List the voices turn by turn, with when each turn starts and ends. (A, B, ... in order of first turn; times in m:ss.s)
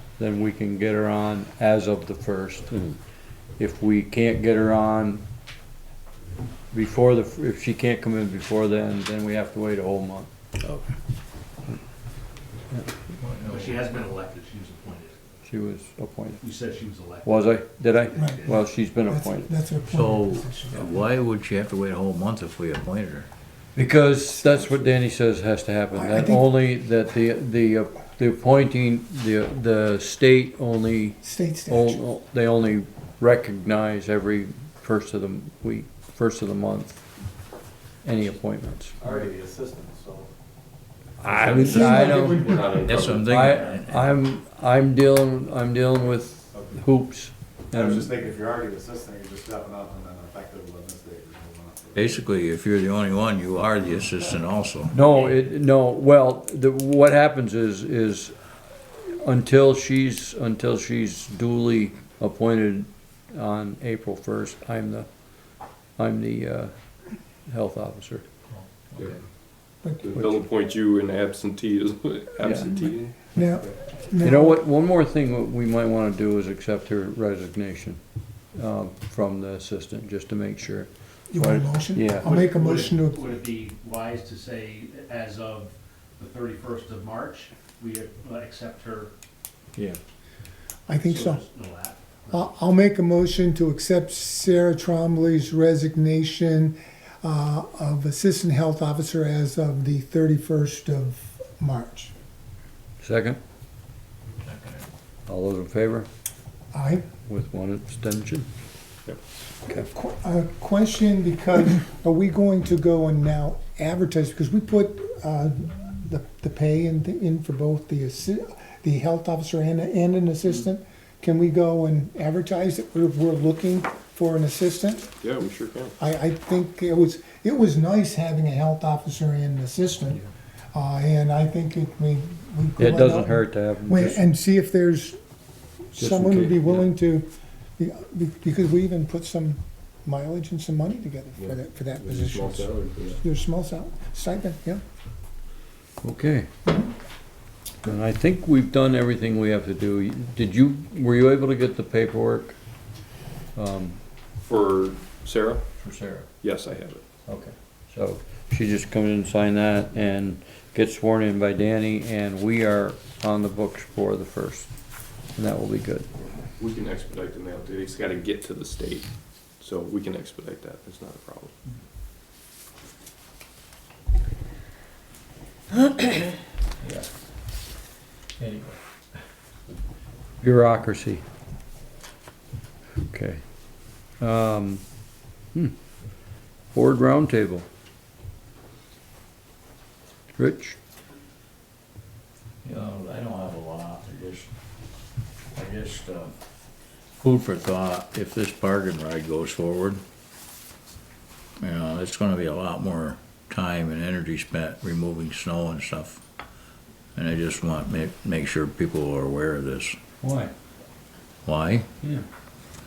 0:00.2-0:03.0 A
0:03.6-0:05.2 A
0:06.7-0:10.3 A
0:13.2-0:13.8 B
0:13.4-0:15.2 C
0:15.4-0:16.4 A
0:16.4-0:18.6 C
0:17.2-0:19.5 A
0:18.1-0:21.0 D
0:20.0-0:23.3 B
0:23.7-0:37.0 A
0:24.4-0:24.9 D
0:25.9-0:26.5 D
0:31.2-0:32.0 D
0:38.0-0:39.0 A
0:39.0-0:40.3 E
0:41.2-0:48.1 A
0:41.3-0:43.2 F
0:41.4-0:41.8 E
0:41.5-0:43.1 D
0:43.0-0:43.9 B
0:43.0-0:43.7 E
0:47.7-0:52.2 E
0:51.9-0:54.9 B
0:54.9-0:58.4 A
0:58.9-1:05.1 A
1:06.0-1:06.7 A
1:07.5-1:08.2 A
1:08.5-1:09.1 B
1:09.8-1:10.2 D
1:10.0-1:13.2 F
1:12.4-1:12.9 A
1:13.3-1:14.6 D
1:14.2-1:18.0 A
1:18.5-1:22.3 A
1:21.3-1:23.4 D
1:22.2-1:29.1 C
1:30.9-1:31.4 D
1:31.0-1:32.5 C
1:32.3-1:42.1 D
1:43.0-1:43.4 A
1:44.4-1:44.8 B
1:45.3-1:46.1 A
1:46.7-1:47.0 D
1:47.2-1:48.5 A
1:49.6-2:05.1 D
2:05.2-2:06.0 F
2:06.0-2:10.2 D
2:10.7-2:15.2 D
2:12.8-2:14.2 A
2:15.9-2:24.8 D
2:16.0-2:16.9 A
2:21.4-2:23.2 F
2:26.0-2:26.5 A
2:27.8-2:32.6 A
2:33.5-2:34.0 A
2:34.4-2:35.6 F
2:35.8-2:36.3 A
2:36.4-2:37.0 F
2:37.2-2:44.7 A
2:45.3-2:46.1 A
2:46.6-2:51.5 F
2:56.8-2:57.1 A
2:58.4-2:58.8 A
3:00.4-3:01.2 A
3:03.0-3:03.4 A
3:04.0-3:04.9 A
3:06.7-3:07.6 A
3:10.4-3:10.8 A
3:12.6-3:14.5 B
3:15.5-3:16.3 B
3:17.2-3:20.0 B
3:21.6-3:26.2 B
3:27.1-3:30.0 B
3:30.2-3:30.5 A
3:31.4-3:31.9 B